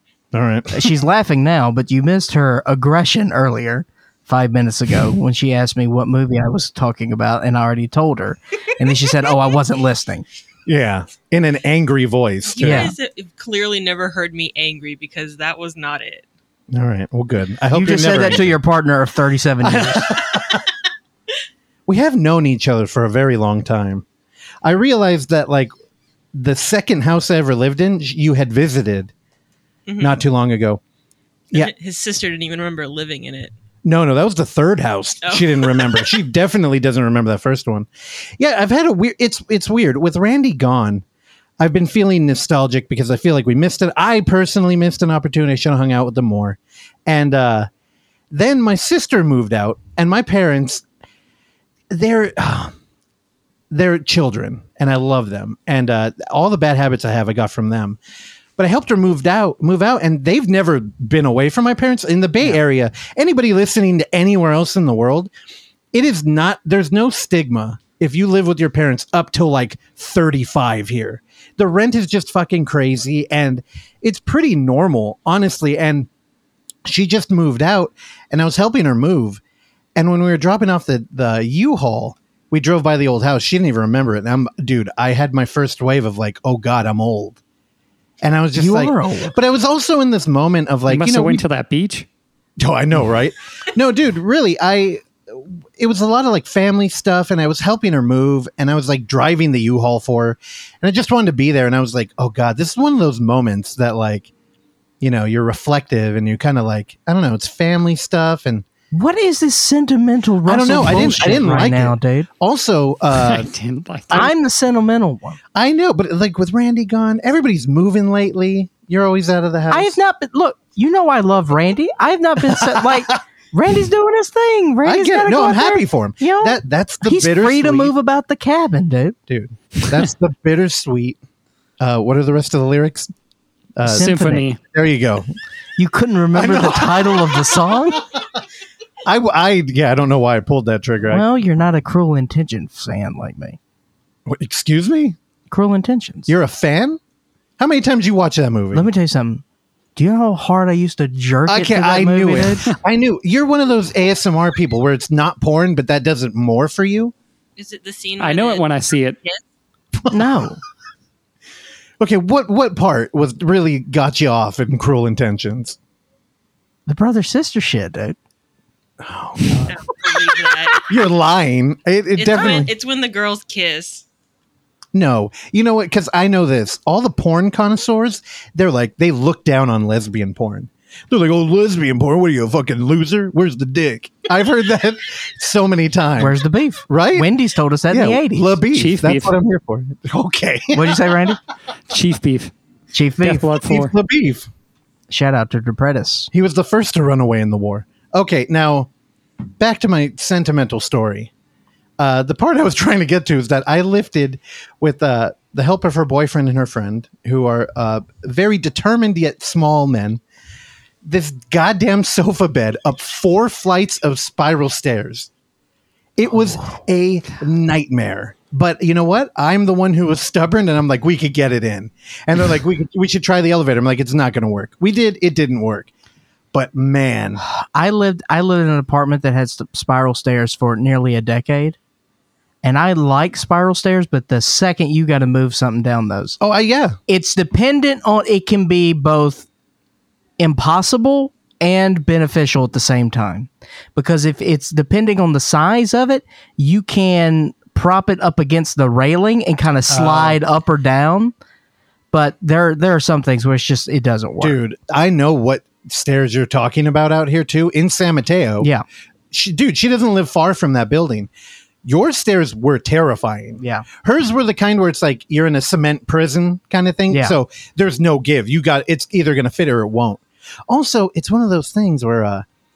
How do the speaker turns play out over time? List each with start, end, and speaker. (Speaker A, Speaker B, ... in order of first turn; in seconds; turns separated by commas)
Speaker A: 0.3-0.9, Speaker B: 0.7-10.2, Speaker A: 10.7-12.9, Speaker C: 12.5-16.2, Speaker B: 12.6-12.9, Speaker A: 16.7-18.6, Speaker B: 17.7-20.1, Speaker A: 19.6-20.6, Speaker A: 21.9-24.0, Speaker A: 24.6-25.7, Speaker A: 26.3-29.1, Speaker C: 29.9-30.2, Speaker A: 30.0-30.8, Speaker C: 31.5-33.5, Speaker A: 33.8-41.0, Speaker C: 35.2-36.1, Speaker A: 41.6-47.7, Speaker A: 48.3-50.8, Speaker A: 51.9-52.7, Speaker A: 53.7-58.0, Speaker A: 58.6-65.3, Speaker A: 65.9-76.1, Speaker A: 76.8-79.4, Speaker A: 80.0-87.4, Speaker A: 88.2-91.4, Speaker B: 88.5-89.3, Speaker D: 90.9-92.1, Speaker A: 92.6-104.3, Speaker A: 105.0-108.6, Speaker B: 108.9-112.3, Speaker A: 110.4-113.5, Speaker D: 113.1-114.3, Speaker B: 114.1-115.4, Speaker A: 115.5-120.0, Speaker B: 119.7-129.2, Speaker A: 122.4-123.1, Speaker A: 124.8-127.9, Speaker A: 129.3-131.2, Speaker A: 131.8-133.1, Speaker A: 133.8-135.2, Speaker D: 133.8-134.6, Speaker B: 135.8-138.0, Speaker A: 136.3-138.2, Speaker A: 139.0-141.2, Speaker B: 141.1-143.6, Speaker A: 144.3-145.2, Speaker B: 145.5-146.3, Speaker A: 146.3-147.0, Speaker A: 147.6-148.9, Speaker B: 148.7-149.4, Speaker B: 149.9-152.6, Speaker A: 151.5-157.1, Speaker C: 157.6-158.7, Speaker D: 158.2-159.2, Speaker B: 160.1-160.6, Speaker A: 162.0-165.8, Speaker B: 166.9-168.2, Speaker A: 169.0-169.8, Speaker C: 169.7-170.8, Speaker A: 170.8-172.7, Speaker C: 172.2-174.0, Speaker A: 174.9-186.4, Speaker B: 186.2-188.6, Speaker A: 186.9-187.3, Speaker A: 187.9-191.2, Speaker D: 188.7-189.3, Speaker B: 190.7-191.4, Speaker D: 191.9-192.5, Speaker B: 192.9-193.5, Speaker D: 193.2-193.9, Speaker A: 193.6-194.5, Speaker B: 195.1-196.3, Speaker A: 196.3-198.9, Speaker A: 199.6-201.3, Speaker A: 202.0-210.2, Speaker A: 211.0-215.3, Speaker A: 216.2-225.9, Speaker A: 226.5-227.4, Speaker B: 227.4-231.8, Speaker B: 232.6-236.4, Speaker A: 236.4-237.0, Speaker B: 237.1-239.5, Speaker B: 240.4-251.3, Speaker A: 249.9-250.4, Speaker B: 252.1-254.6, Speaker A: 254.4-258.7, Speaker A: 259.3-261.3, Speaker A: 261.8-272.4, Speaker B: 263.6-263.8, Speaker B: 267.1-267.3